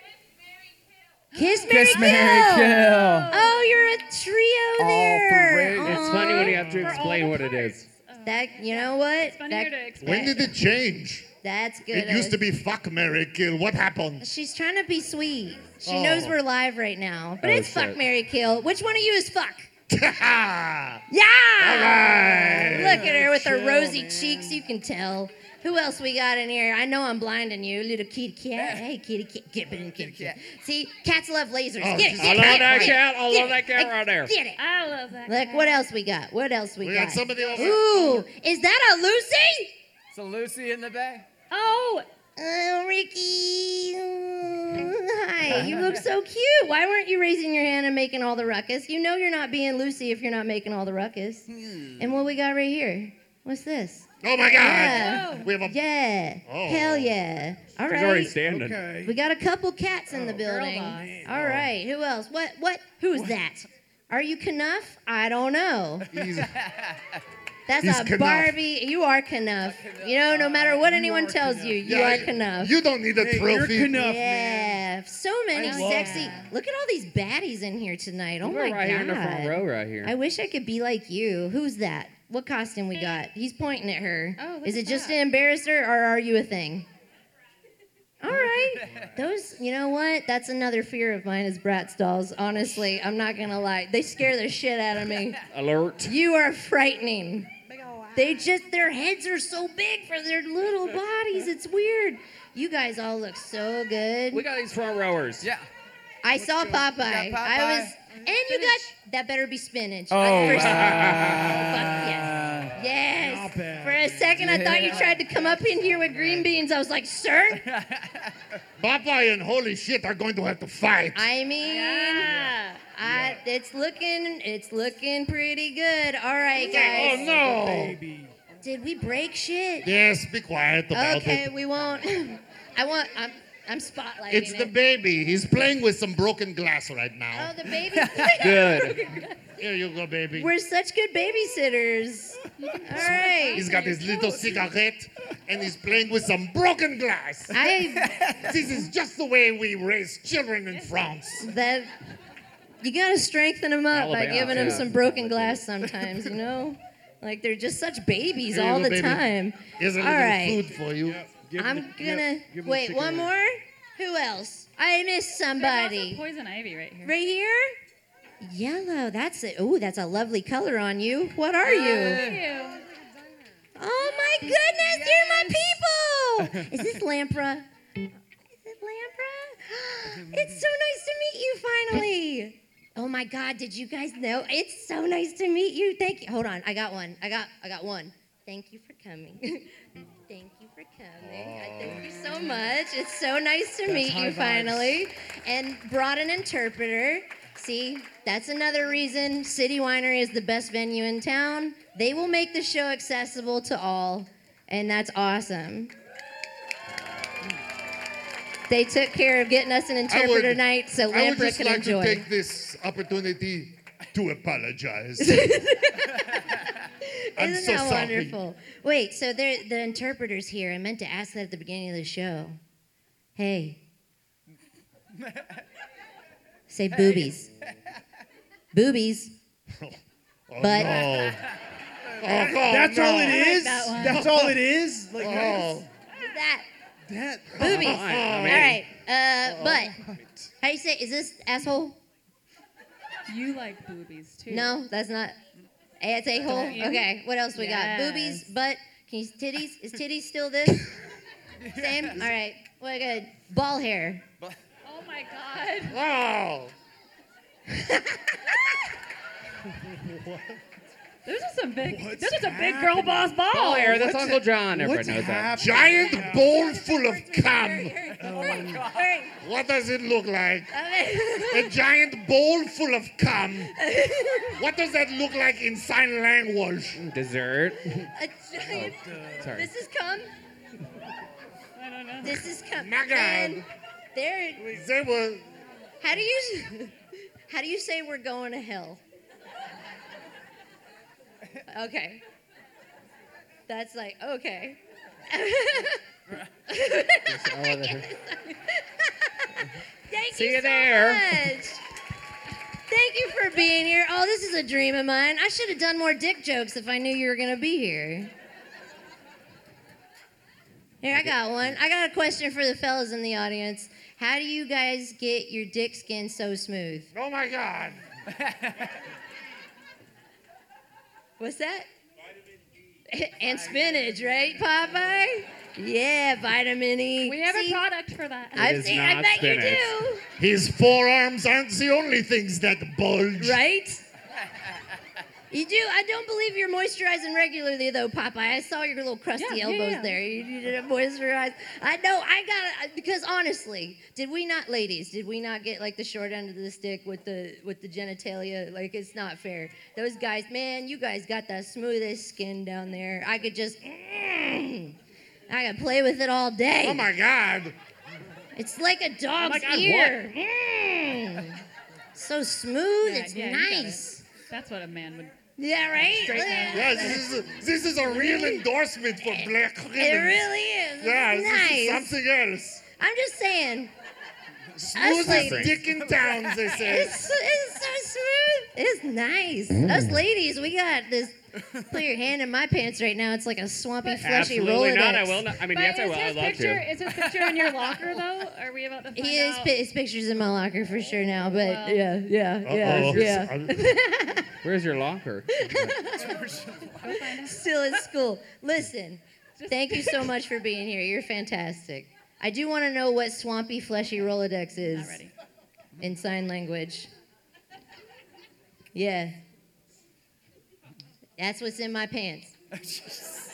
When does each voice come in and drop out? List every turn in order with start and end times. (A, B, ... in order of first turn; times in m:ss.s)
0:01.3-0:04.0 A
0:01.3-0:07.1 B
0:01.7-0:03.3 C
0:04.8-0:06.1 C
0:05.8-0:07.9 D
0:06.1-0:10.6 A
0:06.6-0:07.0 E
0:08.2-0:10.3 B
0:10.0-0:11.3 E
0:11.4-0:12.4 B
0:11.9-0:14.2 E
0:14.2-0:19.7 B
0:15.8-0:16.3 E
0:17.4-0:18.0 D
0:19.9-0:21.0 E
0:21.1-0:34.6 B
0:21.6-0:23.2 E
0:22.3-0:24.6 F
0:28.6-0:28.8 C
0:30.0-0:30.4 C
0:31.8-0:33.0 E
0:32.2-0:34.3 D
0:34.6-0:35.9 A
0:35.3-0:39.8 B
0:36.8-0:37.8 E
0:40.1-0:41.3 C
0:41.5-0:42.0 A
0:42.4-0:58.3 B
0:45.4-0:46.0 C
0:51.6-0:52.0 C
0:54.2-0:55.8 E
0:54.8-0:55.5 A
0:56.5-0:57.1 E
0:57.8-0:58.8 D
0:58.3-0:59.2 F
0:59.0-1:06.1 B
1:00.1-1:01.7 F
1:00.4-1:01.1 A
1:06.1-1:06.5 E
1:06.4-1:07.2 C
1:07.7-1:12.7 B
1:07.8-1:08.6 E
1:09.6-1:10.8 C
1:10.8-1:12.2 F
1:11.8-1:14.0 E
1:13.2-1:14.8 F
1:13.9-1:26.9 B
1:15.5-1:16.4 F
1:15.6-1:16.5 A
1:18.4-1:20.1 D
1:24.4-1:25.2 A
1:28.2-1:35.4 B
1:28.5-1:29.1 C
1:35.5-1:36.1 D
1:36.0-1:37.5 B
1:37.7-1:38.4 C
1:38.1-1:44.4 B
1:44.3-1:45.5 D
1:45.4-1:45.7 C
1:46.2-1:57.6 B
1:46.4-1:46.8 F
1:46.5-1:48.0 C
1:48.4-1:48.8 A
1:50.1-1:52.7 C
1:51.1-1:52.0 F
1:53.2-1:56.4 F
1:54.4-1:55.2 C
1:57.7-1:58.3 C
1:58.8-2:01.3 E
2:01.1-2:02.3 B
2:01.6-2:02.8 A
2:02.2-2:03.4 F
2:02.9-2:07.3 B
2:06.6-2:08.0 E
2:06.7-2:08.3 F
2:08.6-2:09.9 B
2:09.8-2:11.4 E
2:10.9-2:14.7 B
2:14.3-2:17.5 E
2:17.3-2:19.3 B
2:17.9-2:18.4 C
2:18.4-2:19.0 D
2:18.4-2:19.4 A
2:19.6-2:20.5 E
2:20.3-2:23.7 B
2:22.6-2:24.7 A
2:23.5-2:27.6 E
2:27.5-2:28.1 B
2:27.9-2:28.6 C
2:28.4-2:31.5 E
2:30.7-2:31.1 A
2:31.4-2:32.0 B
2:32.8-2:40.6 B
2:33.9-2:35.6 D
2:38.5-2:39.2 E
2:39.8-2:41.3 E
2:41.0-2:43.3 F
2:41.6-2:46.2 B
2:45.6-2:47.1 A
2:47.0-2:47.8 B
2:48.4-2:52.2 B
2:51.6-2:52.7 C
2:51.9-2:52.8 A
2:53.8-2:57.7 B
2:54.1-2:55.5 A
2:58.6-3:25.9 B
3:11.2-3:12.1 E
3:13.9-3:14.9 C
3:28.7-3:32.2 B
3:30.1-3:35.4 E
3:35.2-3:36.4 B
3:37.0-3:42.6 B
3:37.4-3:38.4 E
3:43.4-3:43.8 B
3:46.7-3:47.5 B
3:47.0-3:47.2 C
3:48.7-3:49.3 B
3:50.5-3:51.4 E
3:50.6-3:51.2 B
3:52.2-3:54.6 E
3:52.5-3:55.9 F
3:53.2-3:54.4 A
3:55.2-3:55.9 E
3:56.2-3:56.6 B
3:57.1-3:57.6 F
3:57.5-3:58.8 E
3:57.6-3:59.9 B
3:57.6-3:58.8 D
3:59.4-4:00.2 D
3:59.9-4:00.2 F
4:00.6-4:02.0 B
4:03.3-4:04.7 A
4:04.5-4:05.4 B
4:06.0-4:10.9 B
4:06.4-4:08.5 A
4:11.6-4:12.1 C
4:11.7-4:14.2 B
4:14.8-4:16.0 A
4:15.9-4:16.7 E
4:19.8-4:20.6 E
4:21.2-4:24.0 A
4:21.9-4:26.5 F
4:23.5-4:25.6 D
4:25.6-4:28.0 E
4:25.8-4:29.4 B
4:28.2-4:28.9 F
4:29.4-4:30.7 E
4:30.7-4:31.8 B
4:31.5-4:33.7 E
4:33.7-4:34.6 B
4:34.6-4:37.0 E
4:37.0-4:38.1 D
4:38.1-4:40.3 B
4:38.6-4:39.5 F
4:39.4-4:39.7 D
4:41.8-4:42.4 A
4:42.2-4:43.6 B
4:42.8-4:43.7 E
4:44.1-4:44.7 B
4:44.7-4:45.4 E
4:46.0-4:46.9 B
4:47.5-4:49.0 B
4:51.7-4:52.2 B
4:53.7-4:54.8 B
4:55.3-4:56.0 B
4:56.7-4:59.5 B
4:57.3-4:58.1 D
5:00.1-5:01.8 B
5:00.3-5:01.5 D
5:02.9-5:08.3 B
5:11.0-5:17.1 B
5:17.1-5:18.0 E
5:18.4-5:18.8 C
5:21.4-5:21.9 B
5:23.1-5:27.8 B
5:27.2-5:28.8 A
5:28.5-5:30.2 B
5:28.6-5:30.0 D
5:30.4-5:33.6 E
5:33.4-5:34.0 B
5:35.5-5:54.9 B
5:39.4-5:40.2 A
5:55.5-5:57.1 B
5:56.8-5:57.7 E
5:58.6-6:01.6 B
5:59.4-6:00.2 D
6:02.1-6:04.2 B
6:03.0-6:05.3 A
6:05.6-6:07.2 B
6:06.0-6:07.3 A
6:06.7-6:10.5 E
6:08.1-6:08.6 B
6:09.2-6:12.2 B
6:11.0-6:12.8 E
6:13.0-6:13.9 B
6:14.8-6:17.2 E
6:14.9-6:15.7 B
6:15.1-6:15.8 D
6:16.7-6:25.5 B
6:24.2-6:26.9 D
6:25.6-6:29.7 A
6:29.1-6:34.5 B
6:31.5-6:32.1 A
6:32.6-6:33.8 E
6:34.6-6:36.0 D
6:35.5-6:36.4 B
6:36.6-6:36.9 F
6:37.0-6:37.6 A
6:37.0-6:45.2 B
6:39.6-6:40.3 A
6:44.9-6:45.3 A
6:46.0-6:47.1 B
6:48.9-6:49.3 B
6:51.4-6:52.5 B